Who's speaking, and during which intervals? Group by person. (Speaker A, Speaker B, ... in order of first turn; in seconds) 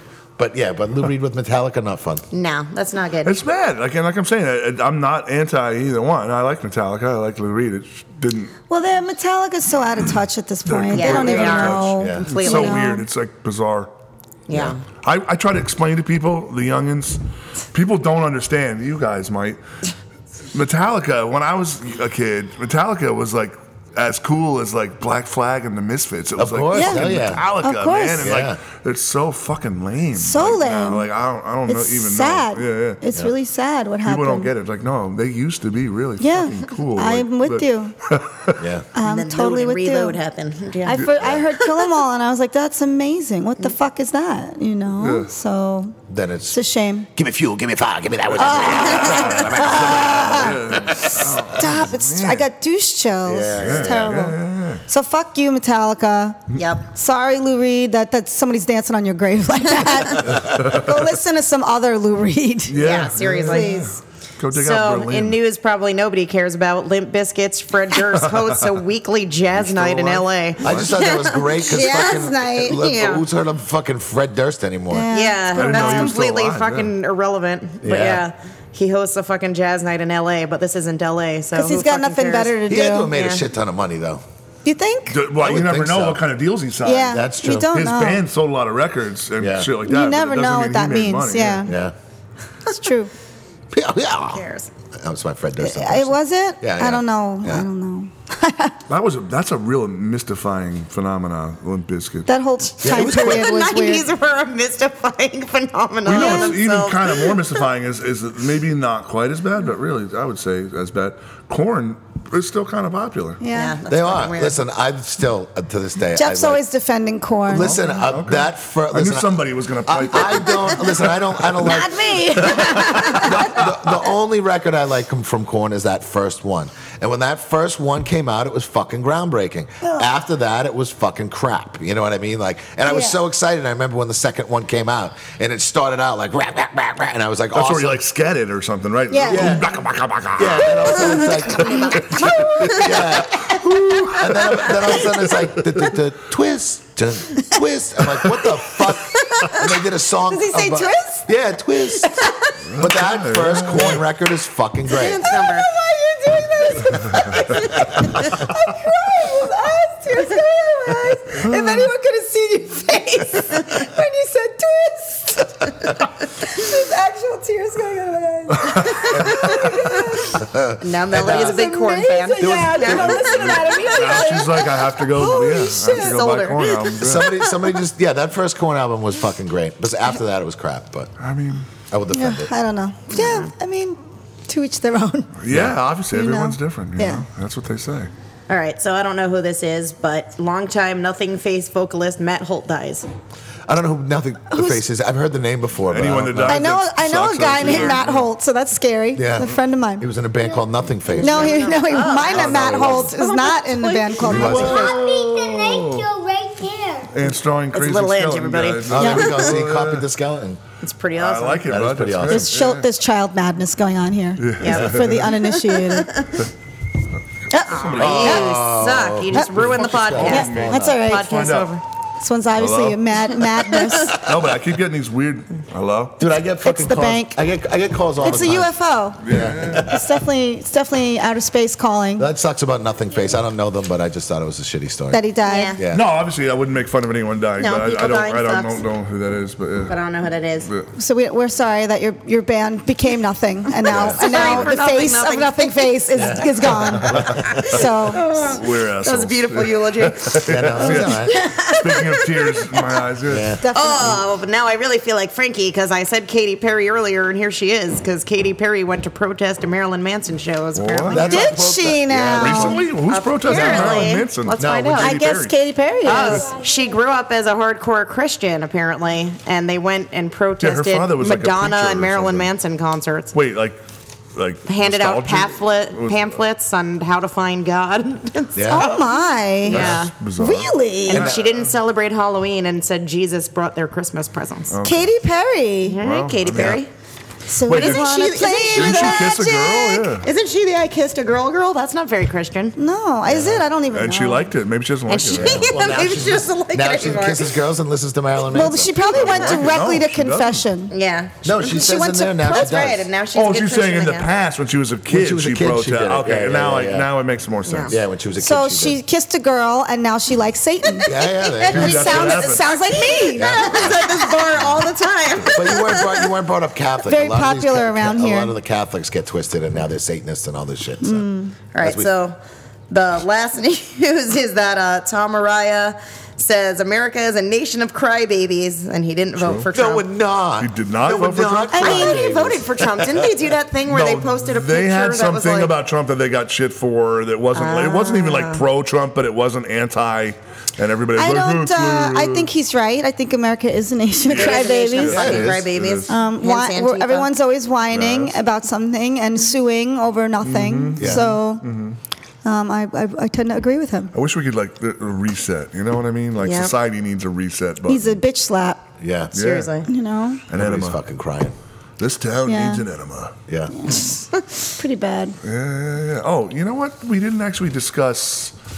Speaker A: 0.4-2.2, 12.0-12.3, 14.5-14.8, 26.4-27.4, 28.2-28.6, 38.6-38.9, 41.2-41.4, 46.1-46.6, 47.1-51.5, 53.2-54.2, 70.6-75.1, 77.8-78.3, 82.7-84.2, 85.3-86.2, 87.1-87.7, 89.4-89.7, 91.7-91.9, 93.7-97.7, 102.8-103.5, 113.9-116.6, 117.5-119.3, 119.8-138.0, 139.3-139.7, 140.4-143.6, 144.1-152.1, 152.8-155.3, 169.1-169.5, 170.4-171.7, 172.3-173.6, 177.0-181.1, 181.9-182.5, 185.5-185.8, 193.7-196.7, 199.2-201.6, 204.2-205.0, 208.8-210.6, 211.7-212.5, 218.0-221.1, 226.2-230.1, 232.2-236.1, 243.9-244.7, 246.2-247.8, 250.4-251.4, 253.3-253.6, 261.1-262.9, 263.5-265.1, 278.6-279.1, 279.7-280.1, 293.3-293.6, 295.3-298.9, 301.4-303.1, 305.1-307.1, 307.9-309.0, 311.1-312.3, 313.3-314.1, 315.5-321.3, 321.8-322.1, 329.7-333.3, 351.0-351.4, 359.0-359.4, 360.5-361.6, 363.5-363.7
Speaker B: 2.3-3.4, 10.9-12.9, 14.5-14.8, 39.0-41.0, 48.9-49.2, 56.5-56.9, 62.8-64.0, 64.5-73.2, 75.1-82.6, 83.1-83.5, 94.3-94.7, 102.9-107.6, 113.5-114.6, 141.2-143.0, 149.3-149.6, 154.9-155.7, 170.8-174.9, 175.8-177.3, 183.1-183.5, 188.5-193.1, 197.6-197.9, 201.1-204.6, 207.7-209.4, 210.8-211.7, 214.6-216.4, 217.7-221.8, 235.5-235.8, 237.6-238.8, 239.9-240.7, 243.9-246.5, 247.5-253.1, 253.7-261.5, 263.1-265.2, 266.0-273.4, 274.7-278.9, 279.7-280.1, 281.1-284.7, 285.9-286.9, 287.7-289.4, 290.2-292.8, 295.1-297.6, 299.2-299.5, 300.9-304.3, 307.6-308.0, 311.4-316.3, 321.7-322.4, 322.9-330.1, 331.7-335.8, 337.5-338.7, 344.3-347.3, 356.4-356.7, 359.3-359.9
Speaker C: 3.2-8.5, 10.7-13.9, 15.0-19.6, 20.5-33.0, 34.0-38.6, 41.0-41.2, 45.0-45.3, 48.4-52.5, 53.6-54.8, 62.7-65.4, 69.5-71.0, 75.5-76.9, 85.1-91.7, 98.9-102.3, 106.0-113.4, 117.5-121.7, 122.4-123.7, 137.5-145.9, 152.7-154.0, 161.3-161.9, 168.6-169.6, 172.9-177.3, 181.2-181.7, 185.4-188.1, 195.9-198.3, 202.2-203.1, 204.2-206.1, 207.1-210.1, 211.2-212.9, 214.4-215.3, 217.6-218.5, 219.5-221.7, 222.6-226.2, 229.2-229.9, 235.9-240.0, 240.6-240.9, 248.2-253.6, 260.8-261.4, 262.4-265.6, 270.6-272.5, 273.3-273.8, 274.3-276.4, 279.7-281.7, 284.7-285.1, 286.0-286.8, 287.7-290.3, 293.9-296.0, 299.0-300.6, 303.3-308.0, 311.7-312.6, 329.4-329.7, 330.6-331.9, 333.9-342.5, 344.3-346.1, 347.9-348.3, 350.4-352.0, 354.1-358.2, 359.3-359.8, 360.5-361.0, 362.0-363.4, 365.4-368.5
Speaker D: 8.7-13.1, 26.7-27.1, 27.6-28.4, 30.2-31.1, 31.7-34.5, 36.2-38.0, 39.0-40.2, 40.8-46.0, 46.5-47.1, 48.4-50.9, 51.5-56.4, 56.9-64.0, 71.6-72.8, 74.9-76.2, 81.5-83.1, 84.7-85.2, 86.8-88.2, 89.8-91.8, 92.7-93.1, 95.6-98.8, 102.3-104.1, 106.1-106.6, 113.4-113.8, 116.2-117.8, 121.6-123.7, 132.9-133.2, 139.1-139.6, 140.7-143.6, 150.3-151.3, 152.1-152.3, 155.3-170.5, 171.2-176.2, 182.1-185.3, 186.1-187.2, 194.5-194.8, 196.4-200.1, 201.2-205.0, 209.0-209.5, 212.2-216.3, 217.5-218.5, 220.2-221.3, 222.2-224.2, 226.6-227.4, 228.2-232.3, 235.1-235.8, 240.9-248.2, 253.6-254.3, 261.2-262.8, 265.0-266.5, 278.7-281.3, 284.8-286.0, 287.5-290.1, 292.8-294.5, 298.5-300.9, 301.6-302.7, 308.4-314.2, 317.1-318.6, 321.0-321.6, 331.7-332.4, 341.2-345.6, 346.1-351.7, 352.4-354.1, 357.9-358.8, 359.9-360.4, 362.5-362.9, 363.7-365.4
Speaker E: 204.3-207.2, 266.0-267.0